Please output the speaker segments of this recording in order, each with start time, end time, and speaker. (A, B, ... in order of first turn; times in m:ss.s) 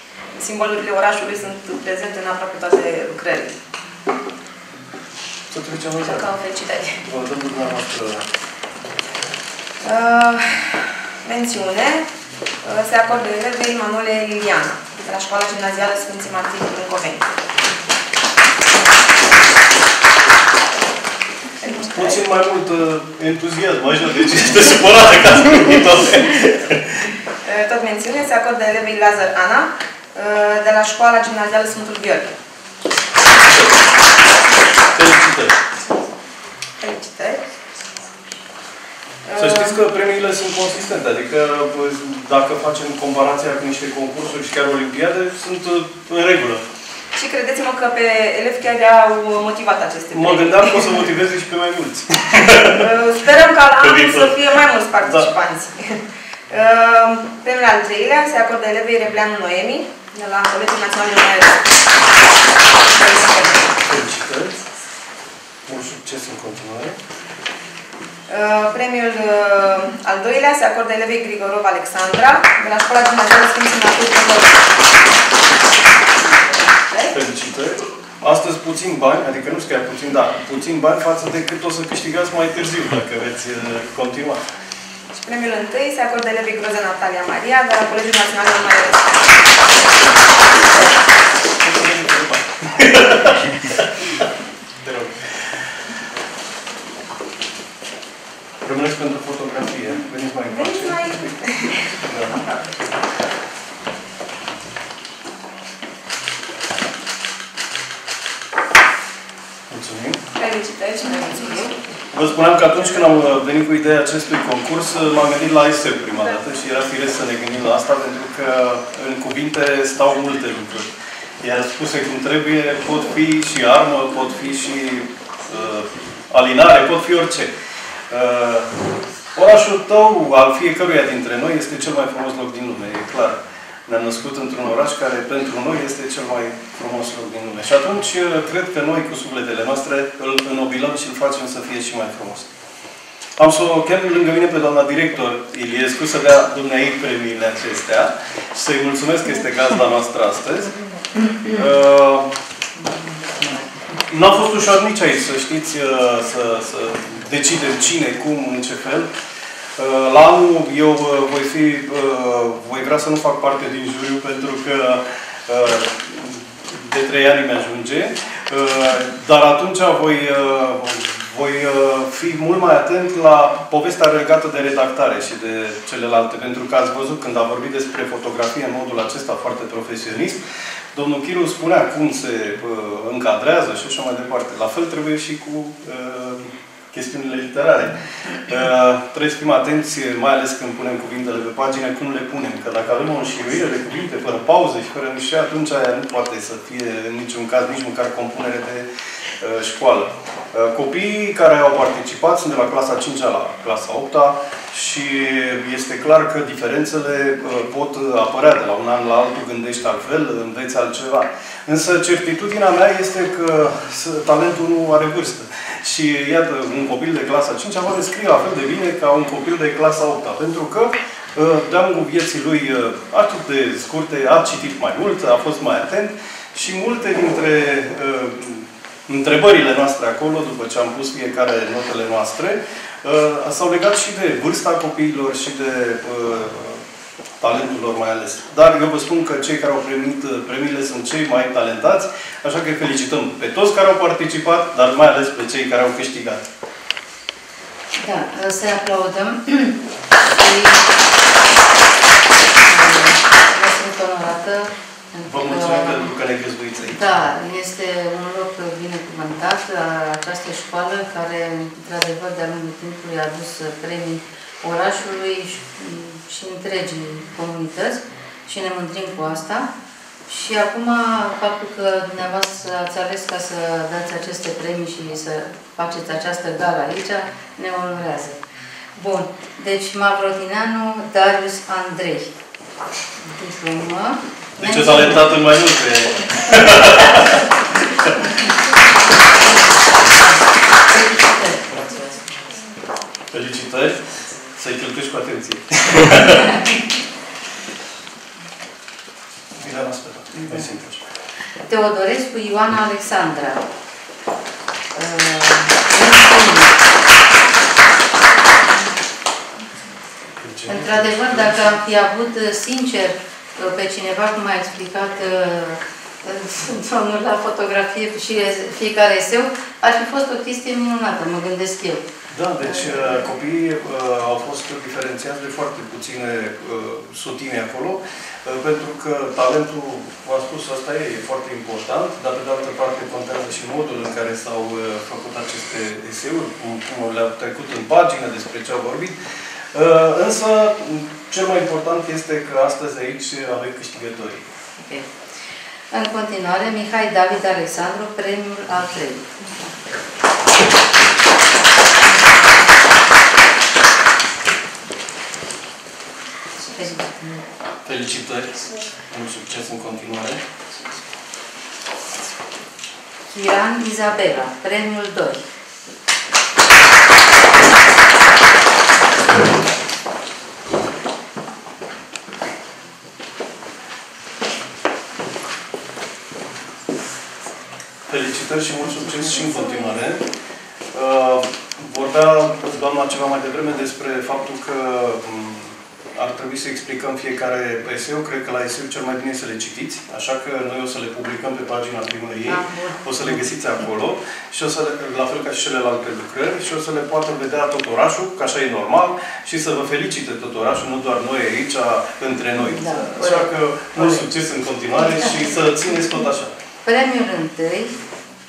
0:00.4-0:03.6 A
0:05.5-0:06.3 B
0:06.0-0:07.0 A
0:07.0-0:08.3 B
0:09.8-0:12.1 A
0:12.6-0:17.3 A
0:21.6-0:22.2 A
0:21.7-0:27.1 B
0:27.4-0:32.4 A
0:33.3-0:33.9 B
0:34.9-0:35.6 B
0:36.8-0:37.5 A
0:39.2-0:39.8 A
0:39.4-0:46.6 B
0:47.2-0:51.0 A
0:50.1-0:52.9 B
0:52.6-1:01.8 A
0:53.8-0:54.4 B
0:55.0-0:55.3 B
1:02.8-1:03.8 A
1:03.8-1:04.6 B
1:05.7-1:07.0 B
1:08.3-1:14.6 A
1:16.7-1:17.2 A
1:17.1-1:24.4 B
1:25.1-1:29.2 A
1:31.6-1:34.1 B
1:34.8-1:35.4 B
1:38.6-1:41.4 B
1:40.5-1:42.6 A
1:42.0-1:42.4 B
1:49.7-1:50.2 B
1:50.4-1:51.8 A
1:52.1-2:07.5 B
1:52.7-1:53.0 A
2:08.1-2:08.7 B
2:09.4-2:22.5 B
2:23.4-2:30.8 B
2:31.4-2:32.3 B
2:32.8-2:33.8 C
2:34.1-2:39.1 B
2:39.8-3:00.4 B
3:00.9-3:18.9 B
3:19.4-3:56.8 B
3:57.4-4:06.5 B
4:08.0-4:10.9 C
4:12.7-4:16.1 C
4:15.3-4:17.1 B
4:17.0-4:29.7 C
4:30.3-4:38.4 C
4:39.0-4:42.3 C
4:43.2-4:45.3 C
4:44.6-4:48.4 B
4:50.3-4:52.6 C
4:53.3-4:56.7 B
4:59.6-5:01.0 B
5:01.7-5:03.7 C
5:04.9-5:06.8 C
5:10.4-5:11.7 B
5:10.7-5:22.1 C
5:22.3-5:39.2 B
5:22.6-5:23.3 C
5:39.7-5:44.5 B
5:44.8-5:45.1 C
5:45.9-5:49.5 C
5:52.2-5:52.5 C
5:56.8-5:57.4 C
5:57.8-6:00.4 B
6:03.3-6:05.4 C
6:18.1-6:20.2 B
6:19.4-6:19.7 C
6:20.9-6:46.5 B
6:32.5-6:33.4 C
6:42.6-6:44.2 C
6:45.0-6:46.1 C
6:46.8-6:48.0 C